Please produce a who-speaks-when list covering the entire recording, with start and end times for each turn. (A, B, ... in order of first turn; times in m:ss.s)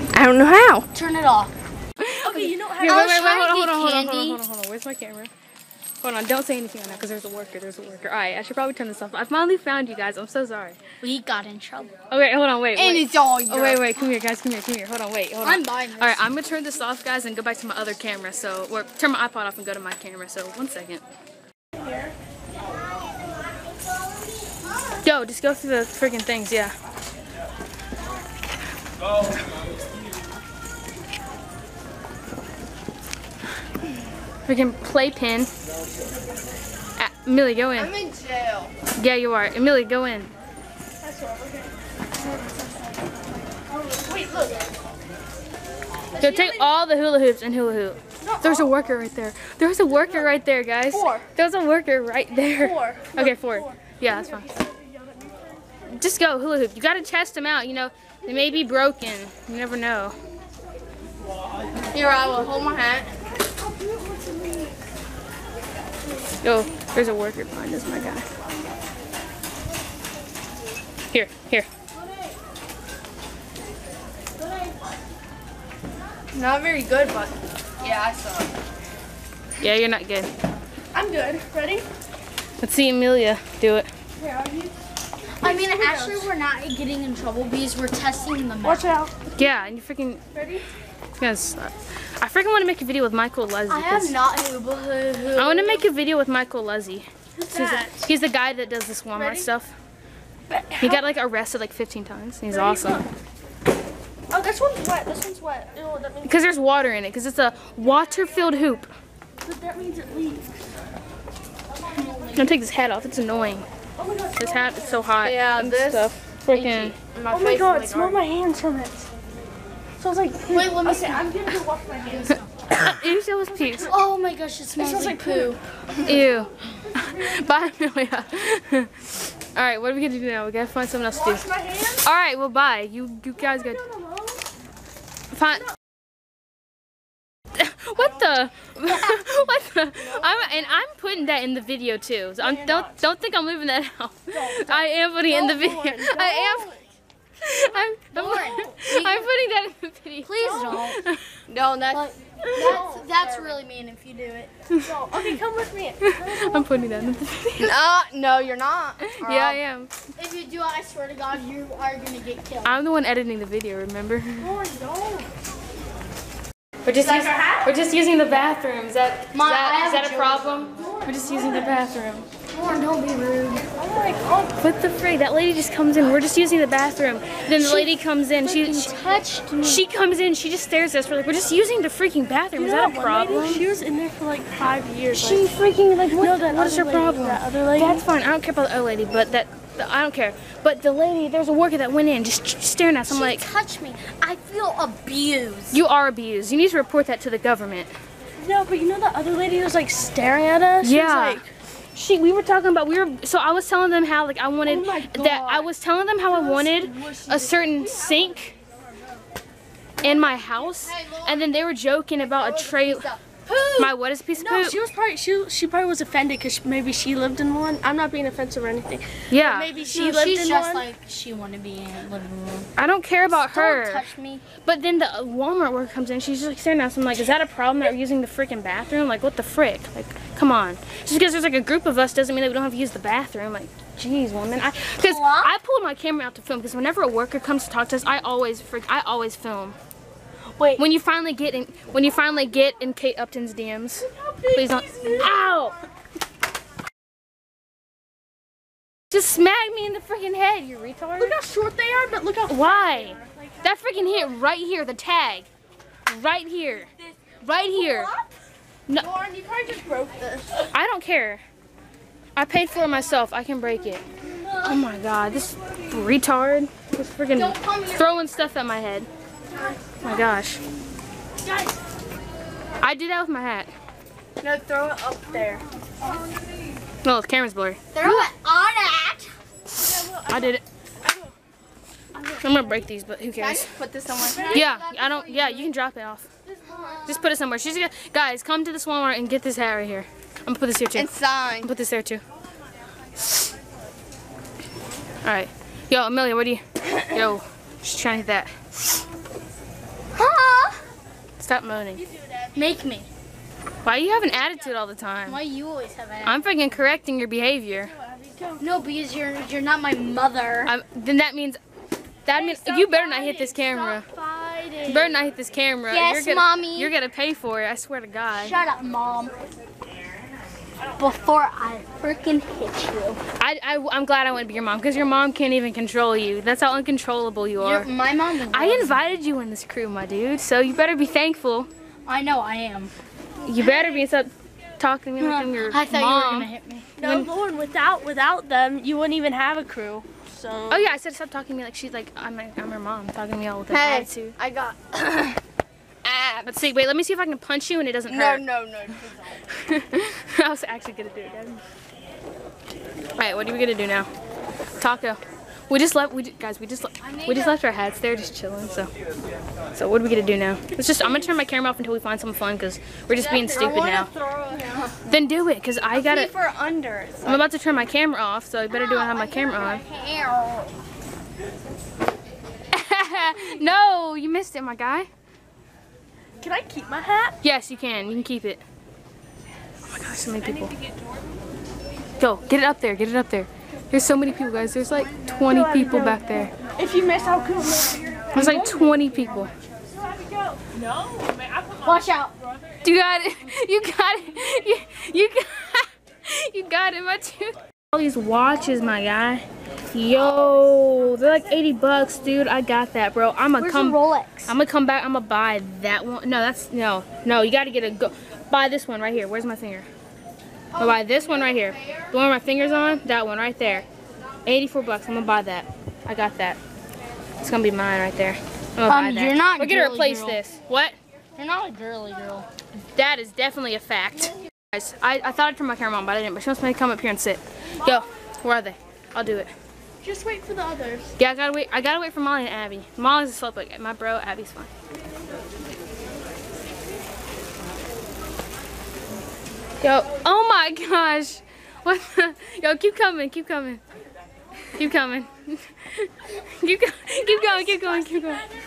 0:00.1-0:00.9 A
0:00.9-0:01.5 B
0:02.0-0:05.3 C
0:02.2-0:03.2 D
0:02.8-0:04.4 B
0:06.0-0:10.8 C
0:11.0-0:12.0 B
0:12.1-0:21.0 C
0:12.8-0:13.8 B
0:13.2-0:13.5 A
0:15.4-0:16.2 B
0:21.8-0:22.1 D
0:25.0-0:26.7 C
0:34.5-0:35.5 C
0:37.0-0:37.9 C
0:37.8-0:38.7 A
0:39.0-0:40.3 C
0:41.0-0:41.7 D
0:43.7-0:44.7 D
0:46.2-0:46.7 D
0:46.2-0:54.5 C
0:48.2-0:48.7 D
0:50.9-0:51.3 D
0:52.5-0:55.8 D
0:55.9-1:00.2 C
1:01.9-1:03.1 A
1:03.5-1:04.7 D
1:06.4-1:08.2 C
1:11.1-1:11.7 C
1:14.4-1:14.8 D
1:16.3-1:18.5 A
1:19.6-1:20.3 C
1:20.9-1:21.9 D
1:22.6-1:23.9 C
1:24.2-1:24.7 D
1:25.4-1:28.9 B
1:25.4-1:26.3 D
1:28.6-1:29.1 D
1:29.4-1:30.2 C
1:30.3-1:30.6 D
1:31.2-1:34.2 C
1:33.7-1:35.8 B
1:35.3-1:39.7 C
1:37.4-1:38.1 D
1:39.2-1:39.5 D
1:40.5-1:41.0 D
1:40.8-1:43.0 C
1:42.5-1:43.1 D
1:44.3-1:46.4 D
1:46.2-1:48.9 C
1:49.4-1:50.5 D
1:51.7-1:52.5 B
1:52.4-1:53.6 C
1:54.0-1:55.1 D
1:54.4-1:57.0 C
1:55.2-1:58.2 A
1:57.3-1:59.1 D
2:00.0-2:02.4 D
2:00.5-2:01.3 B
2:02.0-2:02.4 B
2:02.8-2:03.9 C
2:03.6-2:04.0 D
2:03.8-2:05.6 B
2:04.8-2:05.6 D
2:06.0-2:11.5 C
2:06.8-2:07.5 D
2:11.1-2:12.1 D
2:12.0-2:13.8 C
2:13.4-2:14.4 D
2:15.3-2:15.7 C
2:17.6-2:26.7 C
2:18.8-2:19.2 B
2:20.0-2:20.6 D
2:22.4-2:22.9 D
2:24.3-2:26.8 D
2:27.4-2:31.2 C
2:28.1-2:29.3 B
2:28.3-2:28.7 D
2:30.2-2:31.0 B
2:30.4-2:30.8 D
2:31.5-2:32.1 A
2:31.9-2:34.5 B
2:32.5-2:33.1 D
2:33.2-2:33.6 A
2:34.7-2:35.4 C
2:34.8-2:36.8 D
2:36.0-2:37.7 C
2:37.6-2:39.6 A
2:39.0-2:39.9 C
2:40.2-2:42.8 B
2:42.6-2:44.5 C
2:44.4-2:45.3 D
2:46.8-2:52.3 C
2:47.0-2:47.7 D
2:49.3-2:51.7 B
2:50.8-2:51.2 D
2:52.5-2:53.7 B
2:53.8-2:54.6 D
2:54.6-2:58.9 C
2:57.5-2:59.8 B
2:59.6-3:03.6 C
3:02.6-3:05.4 D
3:05.1-3:13.5 C
3:06.1-3:08.0 D
3:13.1-3:15.8 B
3:15.7-3:17.9 C
3:18.4-3:21.5 D
3:20.8-3:21.4 C
3:22.0-3:28.6 C
3:24.6-3:25.6 D
3:26.3-3:28.0 B
3:28.0-3:28.4 D
3:30.0-3:33.1 C
3:30.8-3:31.5 A
3:32.4-3:33.8 B
3:33.8-3:34.8 C
3:34.4-3:40.9 D
3:39.3-3:39.7 C
3:39.4-3:42.7 B
3:42.8-3:44.1 C
3:43.3-3:44.4 B
3:44.6-3:59.8 C
3:54.9-3:55.5 B
4:00.6-4:00.8 D
4:00.8-4:05.8 C
4:04.0-4:05.5 D
4:09.1-4:11.3 C
4:11.2-4:14.0 D
4:12.5-4:15.5 C
4:16.1-4:16.9 C
4:17.4-4:18.1 C
4:17.5-4:18.2 D
4:19.0-4:20.7 D
4:20.7-4:21.4 C
4:22.4-4:24.0 C
4:24.6-4:29.1 C
4:27.3-4:28.2 B
4:30.0-4:30.6 C
4:31.4-4:31.8 D
4:32.8-4:33.7 C
4:34.4-4:35.6 A
4:37.0-4:38.3 C
4:37.9-4:39.3 B
4:39.8-4:41.3 D
4:40.3-4:40.6 C
4:42.2-4:42.4 B
4:42.4-4:43.8 C
4:43.4-4:44.6 A
4:44.2-4:44.6 D
4:44.3-4:45.7 B
4:44.5-4:46.3 C
4:46.5-4:47.0 D
4:46.6-4:47.2 B
4:47.1-4:52.2 C
4:50.9-4:51.7 A
4:55.2-4:58.5 C
5:00.1-5:00.8 B
5:01.4-5:02.0 C
5:02.0-5:02.8 D
5:02.6-5:03.1 B
5:03.8-5:05.4 C
5:05.3-5:06.5 B
5:06.2-5:07.9 C
5:07.8-5:08.6 D
5:08.6-5:10.7 B
5:10.7-5:11.6 C
5:12.2-5:14.1 C
5:12.3-5:15.2 D
5:14.9-5:18.6 C
5:15.9-5:16.9 B
5:18.4-5:19.3 B
5:21.0-5:23.2 B
5:23.4-5:27.9 C
5:27.6-5:29.0 B
5:28.5-5:31.7 C
5:32.1-5:32.9 B
5:33.4-5:37.3 C
5:35.2-5:36.9 B
5:37.0-5:40.9 D
5:40.7-5:44.4 C
5:43.7-5:45.4 A
5:46.0-5:46.6 A
5:46.4-5:48.5 C
5:48.1-5:49.4 A
5:49.6-5:51.6 C
5:53.2-5:54.1 C
5:54.8-5:58.9 C
5:57.0-5:57.6 B
5:59.8-6:04.1 C
6:03.2-6:04.9 B
6:03.6-6:04.8 A
6:05.1-6:06.3 C
6:05.9-6:07.4 B
6:07.2-6:09.8 C
6:08.7-6:10.8 B
6:12.7-6:15.1 C
6:16.4-6:17.4 D
6:17.4-6:18.6 C
6:19.9-6:20.8 C
6:20.7-6:21.0 D
6:22.2-6:26.5 C
6:25.3-6:28.7 D
6:28.4-6:29.5 C
6:28.4-6:28.9 B
6:29.8-6:30.6 D
6:31.8-6:32.3 B
6:32.8-6:49.9 C
6:43.6-6:44.6 B
6:50.7-6:51.9 A
6:50.8-6:53.9 C
6:54.5-6:56.6 C
6:57.4-7:01.0 C
6:58.9-7:00.4 B
7:01.4-7:02.5 B
7:02.8-7:09.5 C
7:10.0-7:11.1 D
7:11.2-7:14.7 C
7:19.8-7:23.8 C
7:24.7-7:28.4 C
7:27.4-7:28.0 D